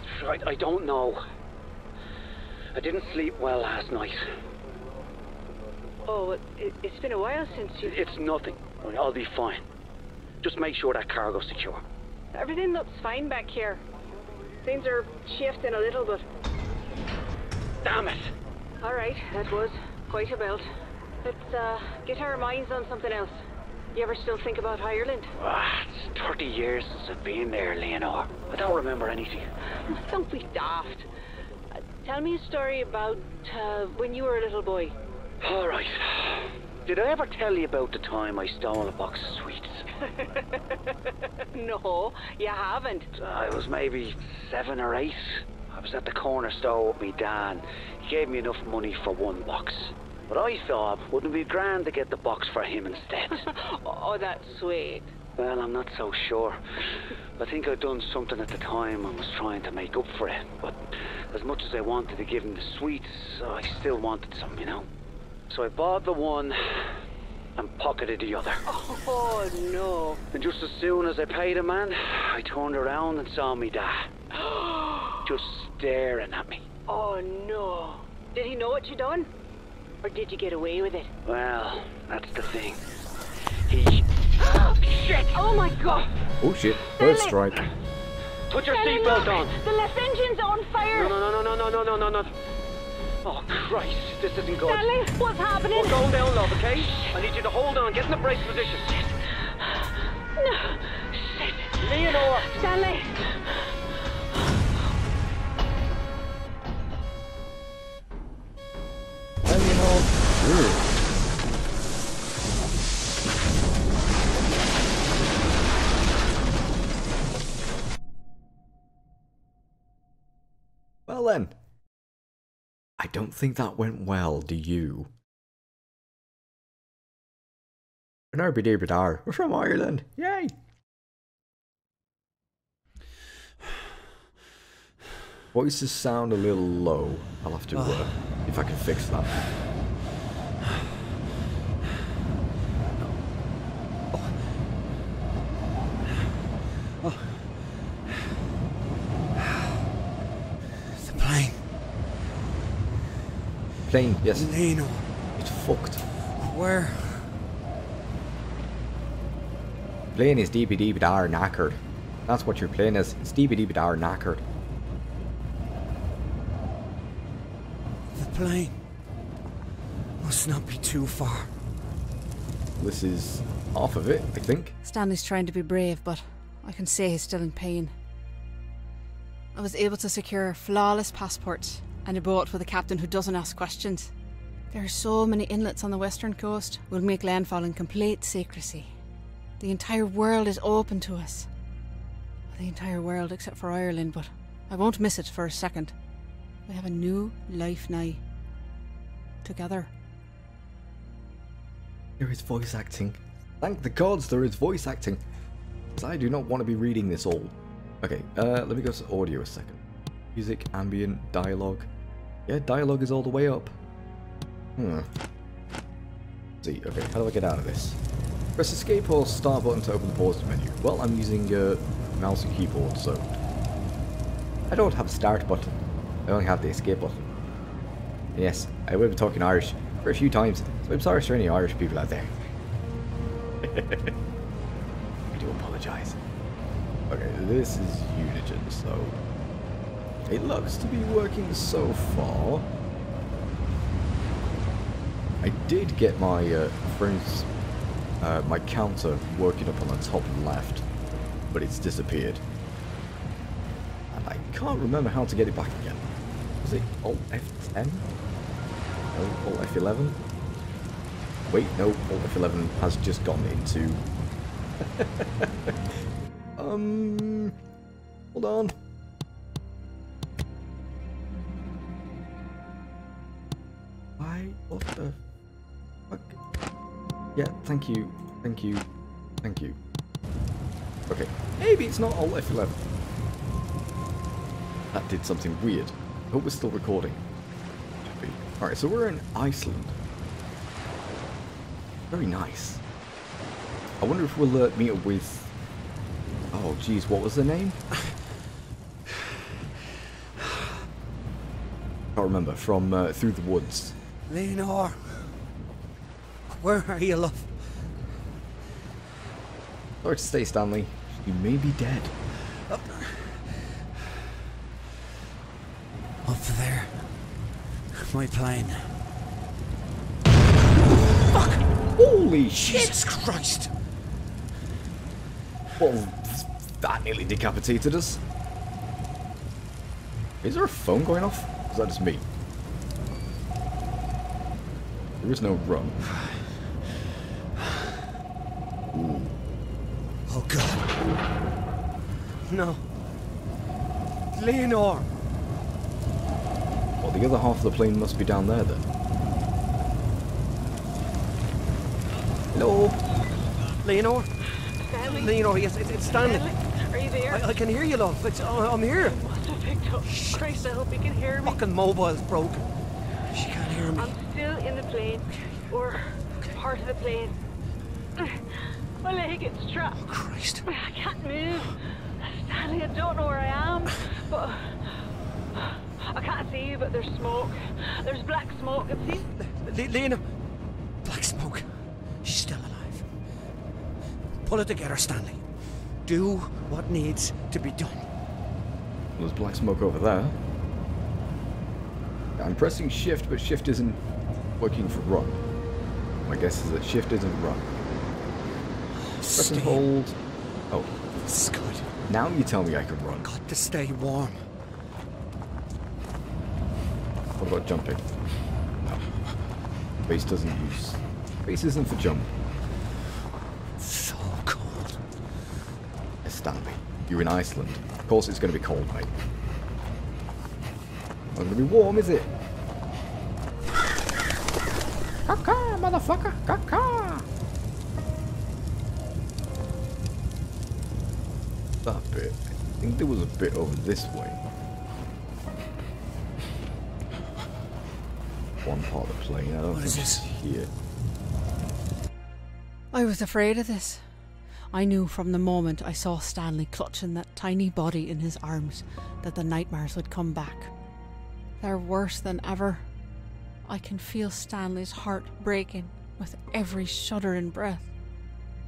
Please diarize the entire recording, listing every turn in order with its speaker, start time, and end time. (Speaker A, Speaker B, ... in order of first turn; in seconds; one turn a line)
Speaker A: 0.1-1.2
Speaker A: 2.7-4.2
Speaker B: 6.0-8.2
Speaker A: 7.8-9.6
Speaker A: 10.4-11.8
Speaker B: 12.3-13.8
Speaker B: 14.6-16.2
Speaker A: 17.8-18.3
Speaker B: 18.8-20.6
Speaker B: 21.2-23.3
Speaker B: 23.9-25.3
Speaker A: 25.4-29.4
Speaker B: 29.8-31.1
Speaker B: 32.0-34.9
Speaker A: 35.4-39.9
Speaker B: 40.1-40.9
Speaker B: 41.5-43.1
Speaker A: 43.1-53.5
Speaker B: 53.3-55.1
Speaker A: 55.4-56.6
Speaker A: 57.4-64.9
Speaker A: 65.5-66.9
Speaker A: 67.5-68.6
Speaker B: 68.7-70.2
Speaker A: 70.3-74.1
Speaker B: 74.3-75.2
Speaker A: 75.2-76.7
Speaker B: 76.9-79.3
Speaker B: 80.0-81.1
Speaker A: 81.2-82.8
Speaker A: 83.7-85.5
Speaker B: 85.3-86.2
Speaker C: 86.4-87.7
Speaker B: 86.9-87.4
Speaker A: 88.5-89.5
Speaker B: 88.5-91.2
Speaker A: 90.9-92.3
Speaker A: 93.2-94.9
Speaker B: 94.6-96.2
Speaker A: 95.7-98.9
Speaker B: 99.0-103.8
Speaker A: 101.8-102.5
Speaker C: 109.4-110.9
Speaker C: 121.1-121.5
Speaker C: 123.0-125.1
Speaker C: 128.3-130.5
Speaker C: 135.5-139.4
Speaker A: 137.7-138.1
Speaker A: 144.1-144.4
Speaker A: 147.0-147.5
Speaker A: 150.8-151.6
Speaker C: 153.8-154.6
Speaker A: 154.3-155.1
Speaker C: 155.4-156.0
Speaker A: 156.3-157.3
Speaker C: 160.1-164.4
Speaker A: 168.1-168.8
Speaker A: 170.2-171.5
Speaker C: 172.8-174.8
Speaker D: 174.8-177.9
Speaker D: 179.5-184.1
Speaker D: 184.7-188.9
Speaker D: 189.6-191.5
Speaker D: 192.5-195.9
Speaker D: 196.7-198.2
Speaker D: 199.4-199.9
Speaker C: 202.2-205.2
Speaker C: 205.9-209.8
Speaker C: 210.3-211.9
Speaker C: 212.5-213.7
Speaker C: 214.8-215.1
Speaker C: 216.6-218.0
Speaker C: 218.6-223.3
Speaker C: 224.7-227.3
Speaker C: 228.3-232.3
Speaker C: 233.6-234.2
Speaker C: 235.3-236.2
Speaker C: 237.1-239.2
Speaker C: 240.2-242.7
Speaker C: 245.4-247.5
Speaker C: 248.2-250.8
Speaker C: 251.5-252.4
Speaker C: 254.1-256.1
Speaker C: 256.6-258.1
Speaker C: 259.1-260.2
Speaker C: 261.5-264.0
Speaker C: 264.8-265.9
Speaker C: 266.6-267.6
Speaker C: 268.3-268.7
Speaker C: 274.2-275.2
Speaker C: 276.1-276.4
Speaker C: 277.4-278.9
Speaker C: 279.4-279.8
Speaker C: 281.1-282.8
Speaker C: 284.9-287.2
Speaker C: 288.0-290.0
Speaker C: 292.1-292.8
Speaker C: 294.0-295.5
Speaker C: 296.5-297.8
Speaker C: 302.1-303.9
Speaker A: 304.3-305.4
Speaker A: 306.6-307.6
Speaker C: 310.0-312.1
Speaker A: 312.7-313.4
Speaker A: 316.2-317.1
Speaker A: 317.9-318.9
Speaker A: 321.1-321.6
Speaker C: 321.9-323.0
Speaker A: 322.6-323.7
Speaker C: 325.8-328.2
Speaker C: 330.4-332.2
Speaker C: 335.2-336.0
Speaker A: 336.1-336.5
Speaker A: 337.6-338.0
Speaker C: 338.9-339.3
Speaker A: 340.3-340.9
Speaker A: 342.4-342.8
Speaker A: 344.3-345.1
Speaker C: 347.0-348.9
Speaker C: 352.5-353.0
Speaker A: 353.8-354.3
Speaker B: 354.8-355.4
Speaker A: 355.0-356.5
Speaker B: 356.1-357.5
Speaker A: 357.3-359.2
Speaker B: 358.9-361.6
Speaker A: 360.0-360.7
Speaker A: 361.4-362.7
Speaker A: 363.3-364.1
Speaker B: 363.9-367.4
Speaker B: 368.2-370.0
Speaker A: 369.9-370.7
Speaker B: 370.7-379.3
Speaker A: 379.3-380.2
Speaker A: 381.0-381.7
Speaker A: 382.2-383.1
Speaker A: 384.4-385.4
Speaker A: 386.0-388.1
Speaker C: 389.2-390.4
Speaker C: 392.4-394.0
Speaker C: 394.6-395.4
Speaker C: 396.2-397.7
Speaker A: 398.9-399.8
Speaker C: 399.3-400.2
Speaker A: 401.2-401.9
Speaker C: 402.1-403.3
Speaker A: 403.2-404.4
Speaker C: 407.4-408.0
Speaker C: 410.1-412.3
Speaker A: 413.8-415.0
Speaker C: 416.2-419.1
Speaker C: 421.3-422.3
Speaker C: 425.2-427.3
Speaker C: 431.8-434.4
Speaker C: 438.6-440.7
Speaker A: 439.7-440.2
Speaker D: 442.9-444.0
Speaker D: 444.7-450.7
Speaker D: 451.6-452.8
Speaker D: 453.6-457.9